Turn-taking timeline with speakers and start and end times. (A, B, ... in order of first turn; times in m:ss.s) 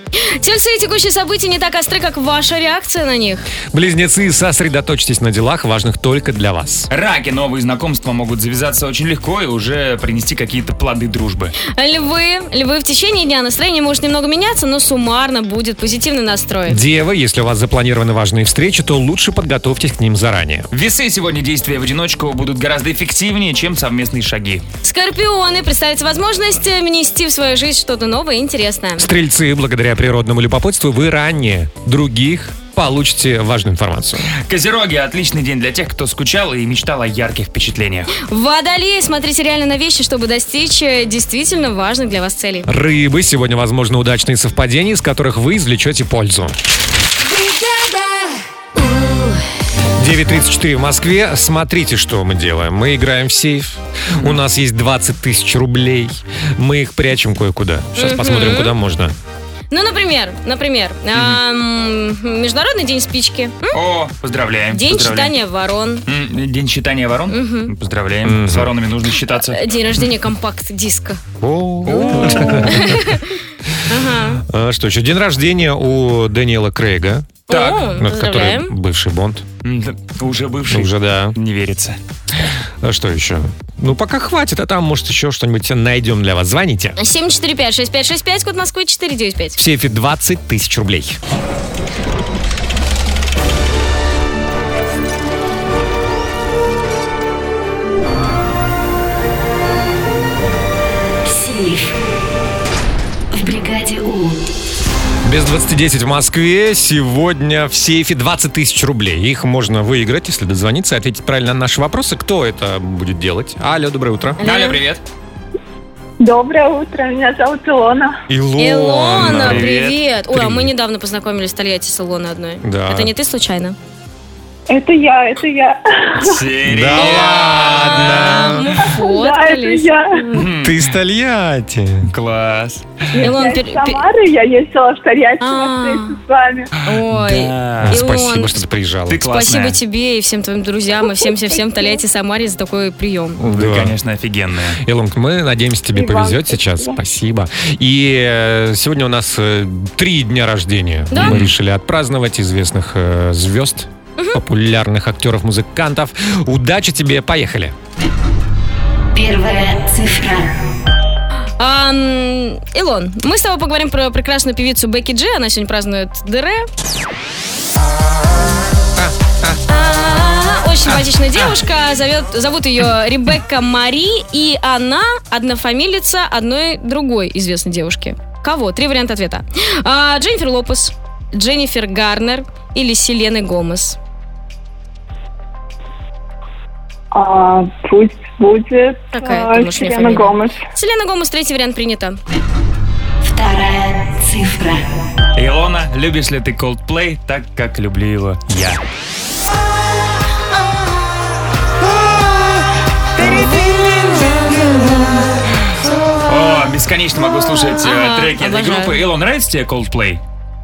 0:00.2-0:03.4 A
0:03.7-0:06.9 B
0:06.9-0:11.6 C
0:11.6-0:16.8 A
0:16.7-0:20.7 B
0:20.7-0:24.6 C
0:24.8-0:29.1 A
0:29.0-0:34.3 B
0:34.4-0:38.1 C
0:38.2-0:42.7 A
0:42.7-0:46.6 B
0:47.3-0:48.3 D
0:50.0-0:59.2 B
0:58.0-0:58.7 A
0:59.7-1:03.7 A
1:01.1-1:01.4 C
1:03.7-1:05.4 C
1:04.7-1:06.0 A
1:06.1-1:10.1 C
1:07.3-1:07.7 A
1:08.2-1:08.7 B
1:09.5-1:11.2 A
1:11.4-1:13.0 B
1:11.9-1:12.9 C
1:11.9-1:13.3 A
1:13.9-1:14.4 A
1:14.5-1:17.4 B
1:17.5-1:18.7 A
1:17.5-1:17.9 C
1:18.0-1:19.4 B
1:19.6-1:22.0 C
1:20.7-1:21.4 B
1:22.8-1:27.0 B
1:27.0-1:29.6 A
1:29.6-1:31.2 B
1:41.2-1:42.0 D
1:43.3-1:44.4 D
1:45.2-1:54.4 B
1:54.4-1:54.8 A
1:54.4-1:55.0 C
1:56.2-1:58.2 E
1:58.3-1:59.7 B
1:58.6-2:03.8 A
1:59.2-2:00.7 C
2:02.6-2:03.1 B
2:04.7-2:06.4 E
2:06.2-2:08.6 C
2:06.7-2:08.7 B
2:08.2-2:10.4 A
2:09.0-2:10.2 E
2:10.3-2:10.9 C
2:10.6-2:12.1 B
2:12.1-2:12.9 C
2:13.1-2:16.7 E
2:13.2-2:14.0 A
2:15.4-2:16.2 A
2:16.8-2:18.6 A
2:16.9-2:18.0 C
2:17.8-2:19.3 B
2:19.1-2:19.8 C
2:19.2-2:23.4 A
2:21.2-2:22.0 E
2:23.4-2:24.0 B
2:23.5-2:24.8 C
2:24.8-2:37.8 B
2:25.9-2:27.0 E
2:31.1-2:31.4 A
2:31.2-2:31.5 C
2:39.2-2:40.7 D
2:41.6-2:46.6 A
2:49.0-2:49.5 B
2:49.7-3:04.0 A
3:07.1-3:10.6 E
3:09.1-3:12.2 A
3:13.2-3:14.9 D
3:15.4-3:18.8 C
3:23.2-3:25.2 D
3:26.3-3:30.2 C
3:27.8-3:29.0 A